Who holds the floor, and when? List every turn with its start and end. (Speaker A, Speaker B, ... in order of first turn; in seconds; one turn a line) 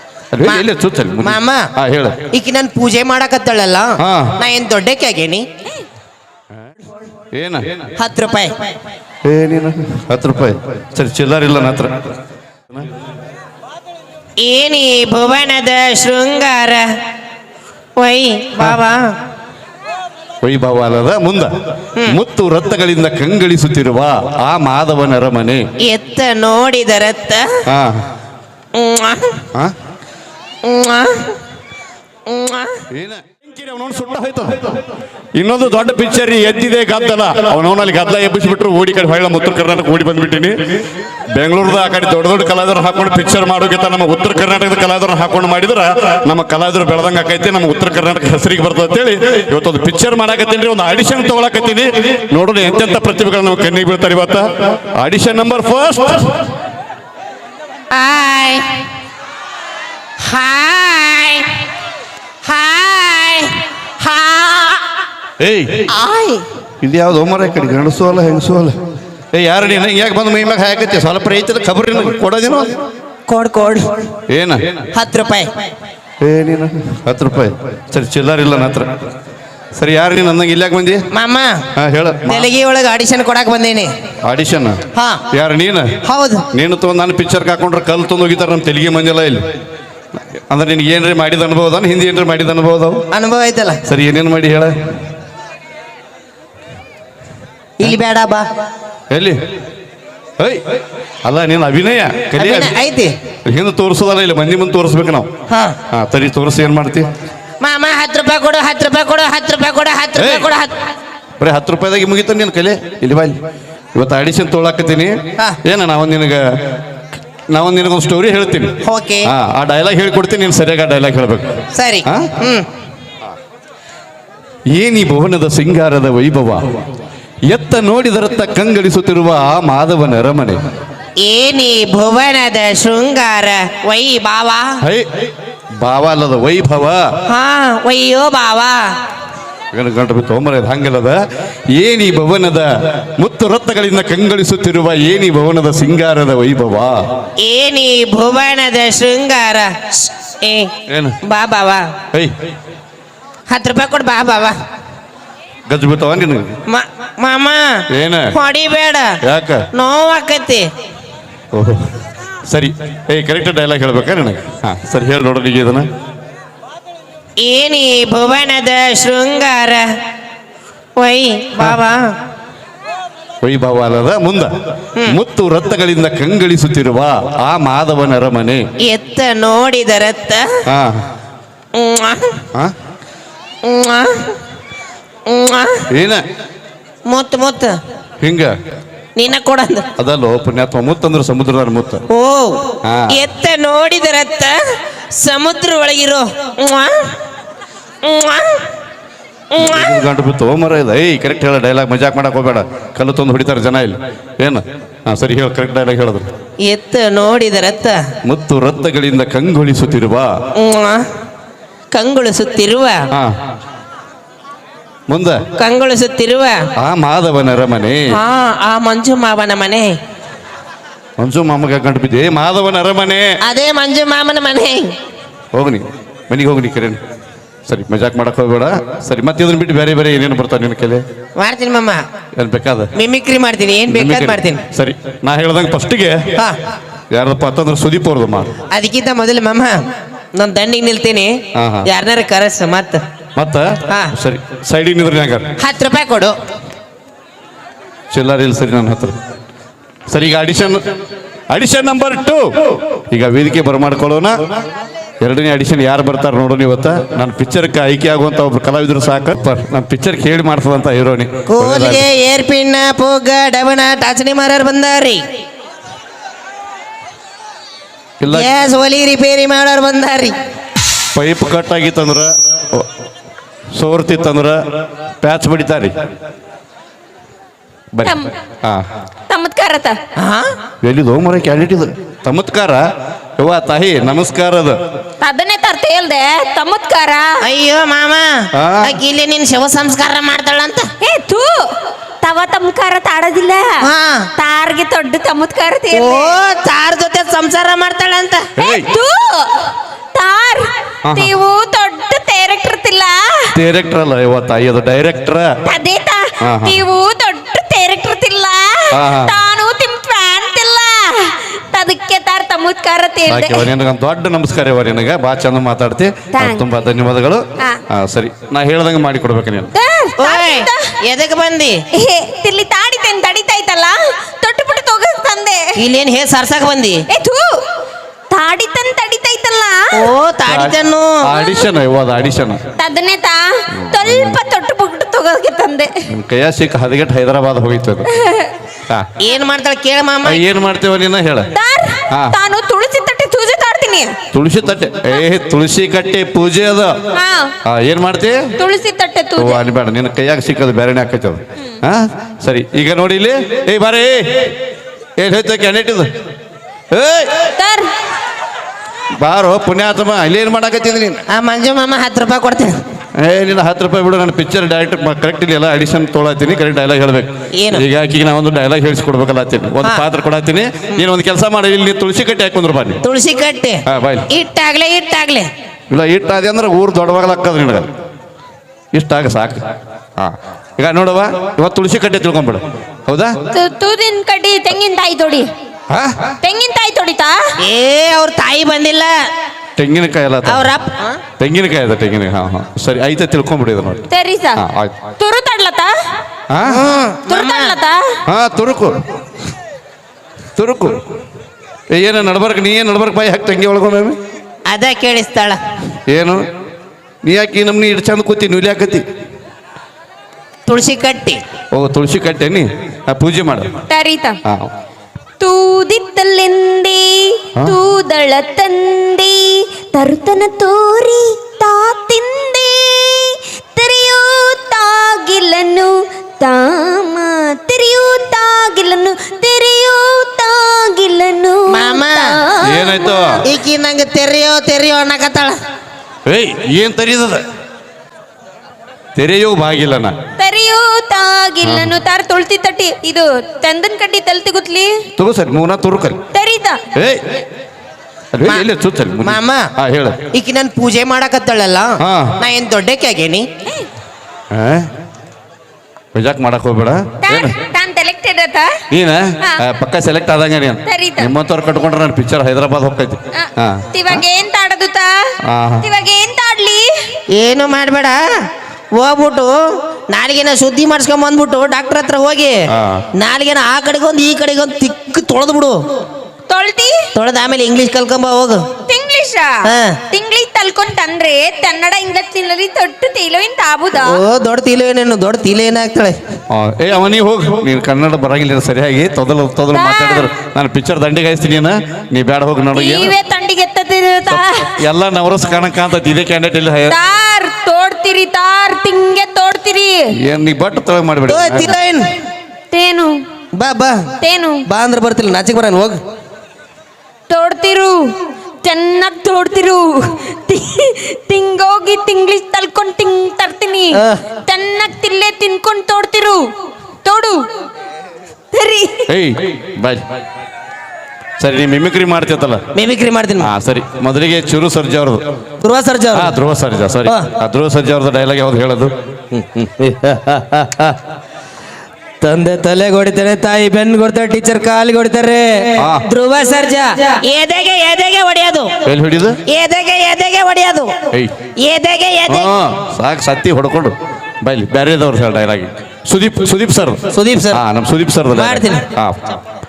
Speaker A: 0.3-2.2
Speaker B: 1.2-1.7
Speaker B: 2.3-5.4
Speaker A: 4.0-4.4
Speaker A: 7.3-7.8
Speaker B: 8.0-8.5
Speaker A: 9.2-12.1
Speaker B: 14.4-16.8
Speaker B: 18.0-19.1
Speaker A: 20.4-21.5
Speaker A: 22.1-25.6
Speaker B: 25.8-27.6
Speaker A: 27.6-28.0
Speaker B: 28.7-29.4
Speaker B: 30.6-31.3
Speaker B: 32.3-32.8
Speaker A: 32.9-34.7
Speaker A: 35.4-56.4
Speaker B: 57.9-58.8
Speaker B: 60.2-61.6
Speaker B: 62.4-64.8
Speaker A: 65.4-65.9
Speaker B: 65.9-66.4
Speaker A: 66.8-68.8
Speaker A: 69.3-72.7
Speaker B: 73.3-74.1
Speaker A: 74.3-74.8
Speaker B: 74.9-75.5
Speaker A: 76.2-79.1
Speaker A: 79.8-81.0
Speaker B: 81.1-81.6
Speaker A: 81.8-82.5
Speaker B: 82.3-83.9
Speaker A: 84.2-84.8
Speaker B: 84.9-85.2
Speaker A: 85.3-85.9
Speaker B: 86.0-86.5
Speaker A: 86.5-89.4
Speaker A: 90.3-93.0
Speaker B: 93.1-93.8
Speaker A: 93.8-94.7
Speaker B: 97.8-98.5
Speaker A: 99.1-99.4
Speaker A: 101.2-102.7
Speaker B: 102.4-103.1
Speaker A: 103.5-105.3
Speaker B: 105.5-105.8
Speaker A: 105.9-107.1
Speaker B: 107.6-110.9
Speaker A: 110.2-110.5
Speaker A: 111.4-113.4
Speaker A: 114.0-116.4
Speaker A: 117.5-118.7
Speaker B: 118.8-119.2
Speaker A: 119.2-122.3
Speaker B: 121.7-122.7
Speaker A: 124.7-126.8
Speaker A: 127.5-130.6
Speaker B: 131.2-134.8
Speaker A: 135.8-137.0
Speaker B: 137.3-138.8
Speaker A: 139.7-141.2
Speaker A: 141.7-147.0
Speaker B: 147.4-150.7
Speaker A: 150.9-151.2
Speaker B: 151.2-151.9
Speaker B: 153.5-154.6
Speaker A: 155.7-156.5
Speaker B: 156.7-159.2
Speaker A: 157.9-158.3
Speaker A: 159.2-159.6
Speaker B: 159.7-160.7
Speaker A: 161.5-161.9
Speaker A: 162.5-165.9
Speaker B: 167.4-169.8
Speaker B: 171.0-172.0
Speaker A: 173.4-174.5
Speaker A: 175.0-178.6
Speaker B: 178.8-180.6
Speaker A: 180.7-181.0
Speaker B: 181.7-182.4
Speaker B: 183.6-184.3
Speaker B: 185.3-185.8
Speaker A: 185.9-186.2
Speaker B: 187.1-187.7
Speaker A: 188.2-188.5
Speaker B: 189.2-189.8
Speaker A: 190.0-192.0
Speaker B: 192.1-194.6
Speaker A: 192.8-193.2
Speaker B: 195.2-196.9
Speaker B: 198.0-198.7
Speaker B: 199.5-200.0
Speaker A: 199.6-206.3
Speaker B: 206.6-208.0
Speaker A: 208.2-210.3
Speaker B: 210.6-211.0
Speaker B: 211.9-213.0
Speaker A: 215.1-215.4
Speaker B: 215.6-216.6
Speaker A: 216.8-218.2
Speaker B: 218.1-219.9
Speaker A: 221.2-223.3
Speaker B: 223.4-224.9
Speaker A: 225.5-227.0
Speaker A: 227.7-231.0
Speaker B: 231.4-232.0
Speaker A: 232.3-232.9
Speaker B: 232.9-234.6
Speaker A: 233.9-236.3
Speaker A: 237.1-238.5
Speaker B: 238.7-239.8
Speaker B: 240.3-241.3
Speaker A: 241.5-241.9
Speaker B: 241.8-243.0
Speaker A: 243.4-245.5
Speaker B: 245.6-246.3
Speaker A: 248.1-249.1
Speaker A: 250.1-250.8
Speaker A: 251.5-252.4
Speaker A: 253.1-254.3
Speaker A: 255.2-262.1
Speaker B: 261.5-265.2
Speaker A: 268.2-268.5
Speaker B: 268.3-270.3
Speaker A: 271.1-272.9
Speaker A: 273.7-274.6
Speaker A: 275.2-275.9
Speaker A: 277.9-278.9
Speaker C: 278.0-278.3
Speaker C: 279.3-280.0
Speaker B: 280.1-280.5
Speaker A: 280.8-282.8
Speaker A: 283.4-284.8
Speaker C: 285.2-287.4
Speaker B: 287.4-290.9
Speaker A: 288.5-288.9
Speaker C: 291.0-291.7
Speaker C: 292.2-296.4
Speaker B: 293.8-294.3
Speaker B: 295.9-298.5
Speaker A: 298.6-298.9
Speaker C: 298.6-303.5
Speaker A: 301.0-301.3
Speaker A: 303.5-305.5
Speaker C: 305.6-313.7
Speaker A: 306.4-306.8
Speaker A: 308.9-309.4
Speaker A: 313.3-319.7
Speaker C: 316.3-316.6
Speaker C: 319.7-320.9
Speaker B: 320.2-321.8
Speaker C: 321.9-325.6
Speaker B: 325.8-327.0
Speaker C: 327.1-327.6
Speaker C: 328.3-330.0
Speaker B: 329.9-331.3
Speaker A: 330.5-332.6
Speaker C: 331.4-331.7
Speaker C: 332.8-335.9
Speaker A: 333.7-334.4
Speaker A: 336.1-338.1
Speaker C: 338.1-338.5
Speaker B: 339.2-340.4
Speaker A: 340.2-341.5
Speaker C: 341.5-344.1
Speaker A: 342.1-342.3
Speaker A: 344.3-346.9
Speaker C: 347.1-347.5
Speaker A: 347.6-348.5
Speaker C: 348.6-349.6
Speaker A: 349.4-354.5
Speaker A: 355.2-356.1
Speaker A: 356.9-357.5
Speaker C: 357.6-357.9
Speaker A: 359.2-361.2
Speaker B: 361.3-362.7
Speaker A: 363.2-373.0
Speaker B: 367.5-367.8
Speaker B: 373.0-375.5
Speaker A: 373.9-374.2
Speaker A: 375.9-377.9
Speaker A: 378.9-379.6
Speaker A: 380.2-383.3
Speaker C: 383.5-385.5
Speaker A: 385.9-386.1
Speaker C: 386.4-387.4
Speaker B: 387.6-389.1
Speaker A: 389.8-390.7
Speaker B: 390.4-391.2
Speaker A: 391.4-394.0
Speaker C: 394.1-394.6
Speaker A: 394.6-395.1
Speaker C: 395.2-395.9
Speaker A: 396.5-396.8
Speaker B: 396.6-397.8
Speaker C: 397.3-398.0
Speaker A: 398.3-398.9
Speaker A: 400.6-401.0
Speaker A: 401.9-404.2
Speaker B: 404.7-405.6
Speaker A: 406.1-406.4
Speaker A: 407.2-409.0
Speaker B: 410.6-411.4
Speaker A: 411.7-413.7
Speaker C: 413.9-414.4
Speaker C: 415.4-433.2
Speaker B: 431.7-432.3
Speaker A: 432.6-433.4
Speaker B: 433.4-435.5
Speaker A: 436.2-437.4
Speaker A: 439.1-440.1
Speaker C: 440.4-444.9
Speaker A: 441.6-441.9
Speaker A: 445.2-446.2
Speaker C: 446.3-446.8
Speaker A: 446.9-447.2
Speaker A: 448.3-450.2
Speaker B: 449.2-449.7
Speaker B: 450.3-453.4
Speaker A: 452.0-452.4
Speaker A: 454.5-454.9
Speaker A: 456.1-457.5
Speaker C: 457.2-458.8
Speaker A: 458.9-464.2
Speaker C: 460.9-461.3
Speaker C: 463.3-466.9
Speaker A: 465.4-465.9
Speaker B: 467.4-468.2
Speaker B: 468.9-469.6
Speaker B: 470.1-472.6
Speaker A: 472.7-473.0
Speaker B: 473.1-475.8
Speaker C: 476.5-477.1
Speaker B: 477.1-478.6
Speaker C: 478.9-484.2
Speaker B: 479.6-480.0
Speaker B: 483.9-486.1
Speaker A: 486.5-493.1
Speaker C: 489.7-490.3
Speaker C: 492.7-494.8
Speaker A: 494.3-496.9
Speaker C: 496.9-500.1
Speaker A: 500.2-501.7
Speaker B: 501.3-502.1
Speaker C: 502.7-503.1
Speaker B: 503.6-504.1
Speaker C: 504.2-504.6
Speaker B: 504.6-506.0
Speaker C: 507.3-508.0
Speaker C: 508.6-516.4
Speaker B: 513.9-514.2
Speaker C: 517.0-517.4
Speaker C: 518.5-519.1
Speaker A: 519.1-520.0
Speaker A: 521.4-522.6
Speaker B: 522.7-523.5
Speaker A: 523.4-525.2
Speaker B: 525.6-526.3
Speaker A: 526.1-528.9
Speaker B: 529.4-530.8
Speaker B: 532.2-538.7
Speaker A: 535.8-536.1
Speaker A: 538.8-539.4
Speaker B: 539.4-540.9
Speaker B: 541.6-542.5
Speaker A: 542.3-549.4
Speaker B: 547.1-547.6
Speaker B: 548.3-548.9